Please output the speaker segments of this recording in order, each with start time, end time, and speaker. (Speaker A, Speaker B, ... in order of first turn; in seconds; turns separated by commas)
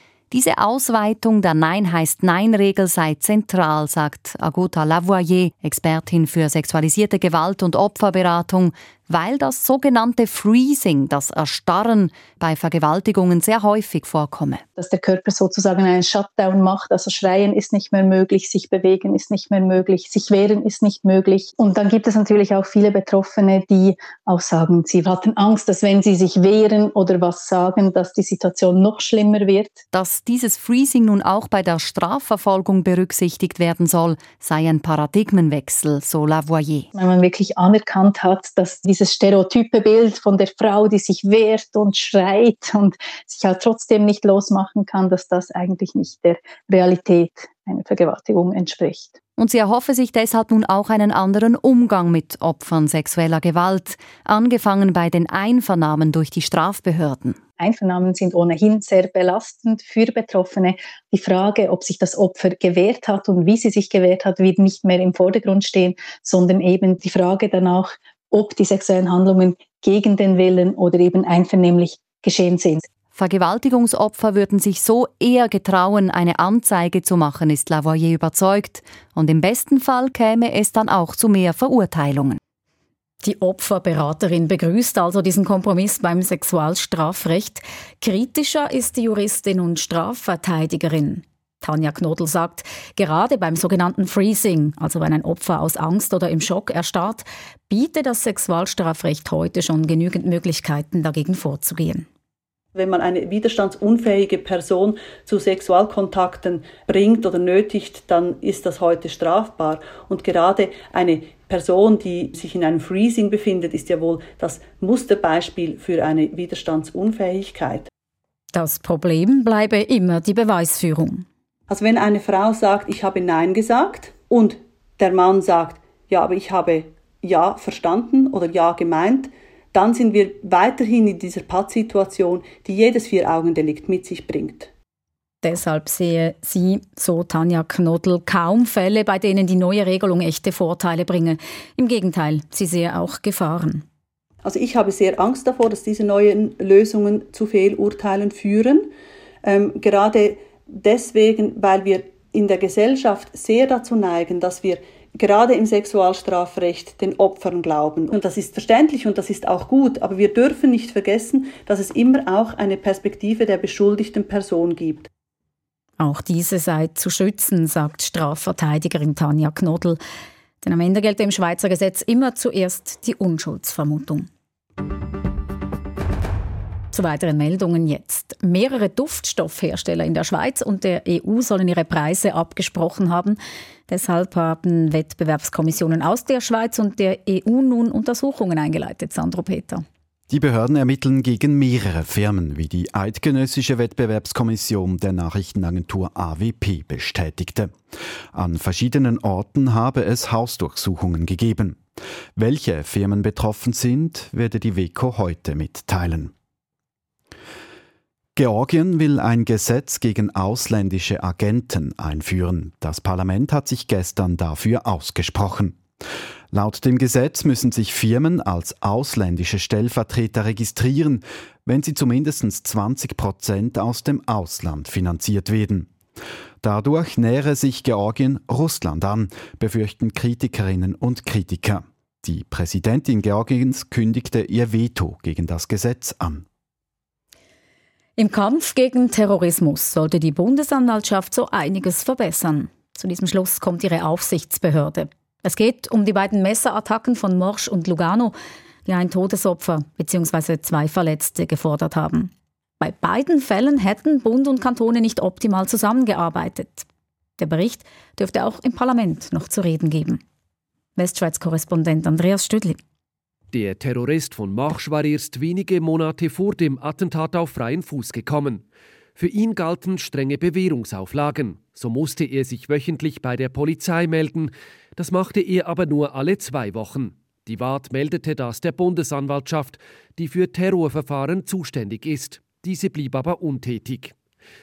Speaker A: 0.3-14.6, Speaker B: 14.8-29.8, Speaker A: 29.9-36.9, Speaker B: 37.0-49.2, Speaker A: 49.4-57.4, Speaker B: 57.6-72.9, Speaker A: 73.1-82.4, Speaker C: 83.2-102.1, Speaker D: 102.8-117.9, Speaker C: 118.5-121.3, Speaker D: 121.7-134.7, Speaker C: 135.4-143.8, Speaker D: 144.4-148.9, Speaker D: 149.4-165.1, Speaker C: 166.0-170.0, Speaker C: 170.6-174.3, Speaker C: 176.9-189.8, Speaker E: 190.3-197.7, Speaker E: 198.3-201.8, Speaker E: 202.4-206.3, Speaker E: 208.4-215.8, Speaker E: 216.5-225.9, Speaker E: 226.6-236.4, Speaker C: 238.2-248.3, Speaker C: 248.8-256.9, Speaker C: 257.4-260.2, Speaker C: 261.0-262.8, Speaker F: 263.5-268.6, Speaker F: 269.2-284.1